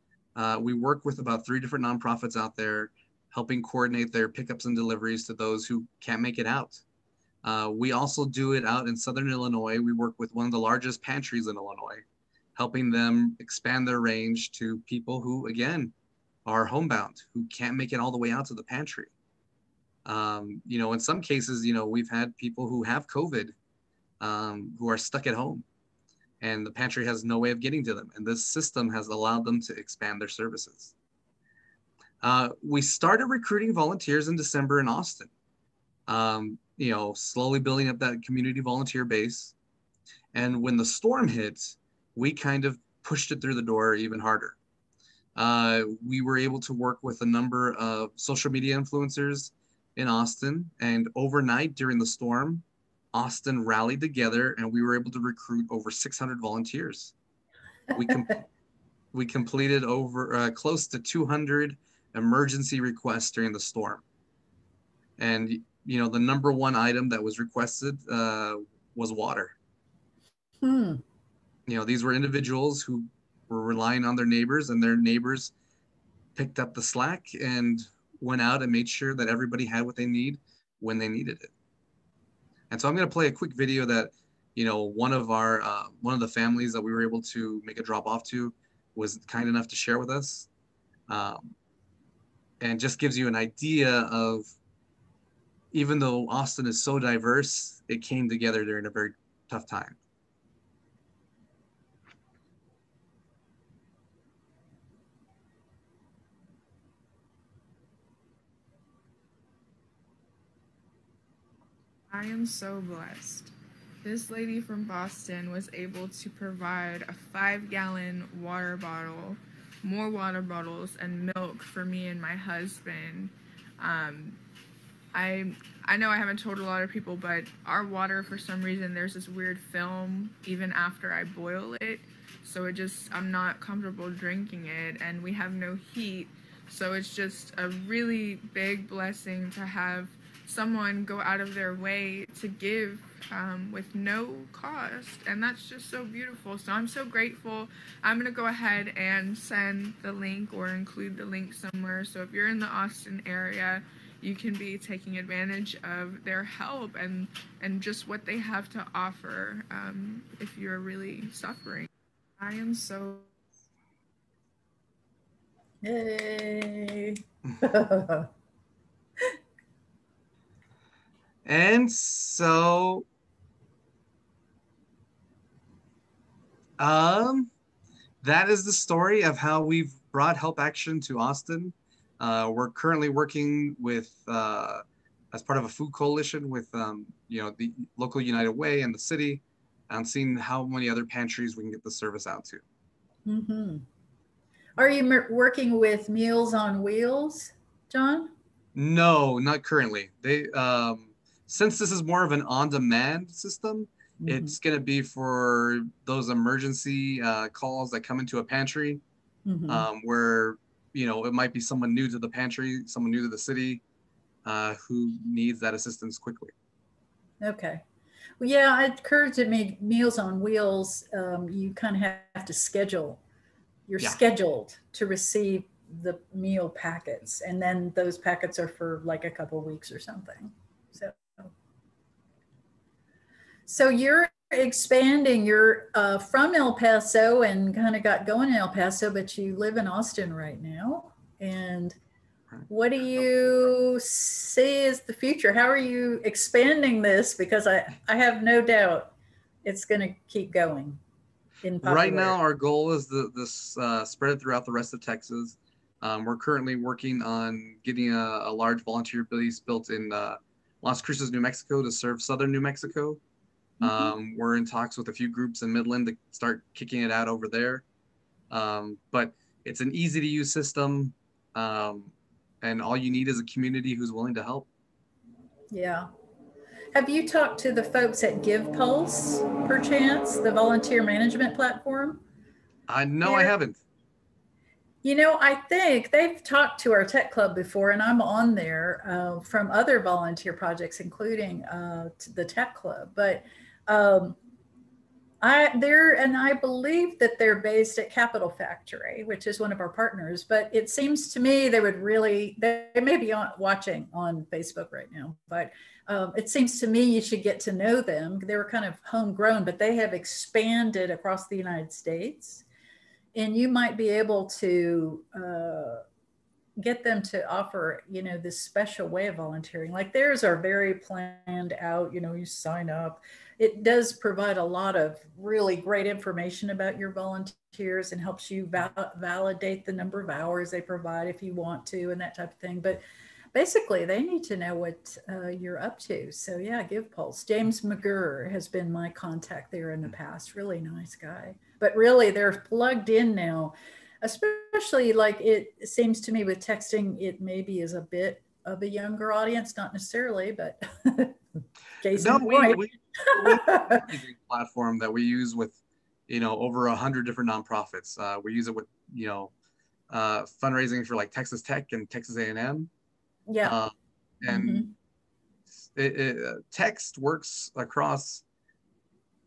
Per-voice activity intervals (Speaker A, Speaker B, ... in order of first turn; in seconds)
Speaker A: 0.3-6.8, 7.4-12.0, 12.6-15.9, 16.4-19.1, 20.0-23.5, 24.2-25.6, 26.4-30.9, 32.2-35.3, 36.1-39.5, 40.3-44.5, 45.4-57.1, 57.9-58.4, 59.1-64.0, 65.2-69.5, 71.7-75.5, 76.3-81.5, 82.7-90.5, 91.1-91.5, 92.6-94.5, 95.7-100.0, 171.4-173.0, 176.8-177.5, 178.2-192.6, 198.7-209.0, 209.7-213.8, 214.4-216.5, 251.8-263.2, 263.8-267.8, 268.5-274.7, 282.9-283.8, 352.1-355.8, 356.3-359.5, 360.1-362.9, 363.6-364.9, 365.8-368.4
Speaker B: 70.6-71.0, 165.8-168.3, 193.2-193.8, 194.8-198.3, 204.2-204.6, 209.4-209.9, 217.4-217.8, 218.4-223.2, 223.9-231.5, 233.7-242.0, 242.7-251.0, 251.6-252.4, 263.8-264.1, 275.7-276.1, 276.9-282.2, 283.2-283.5, 285.0-294.4, 295.4-312.6, 313.4-316.0, 316.8-333.0, 333.5-351.4, 352.0-354.1, 363.5-363.8, 364.4-364.9
Speaker C: 112.1-124.4, 125.1-161.9, 162.4-163.3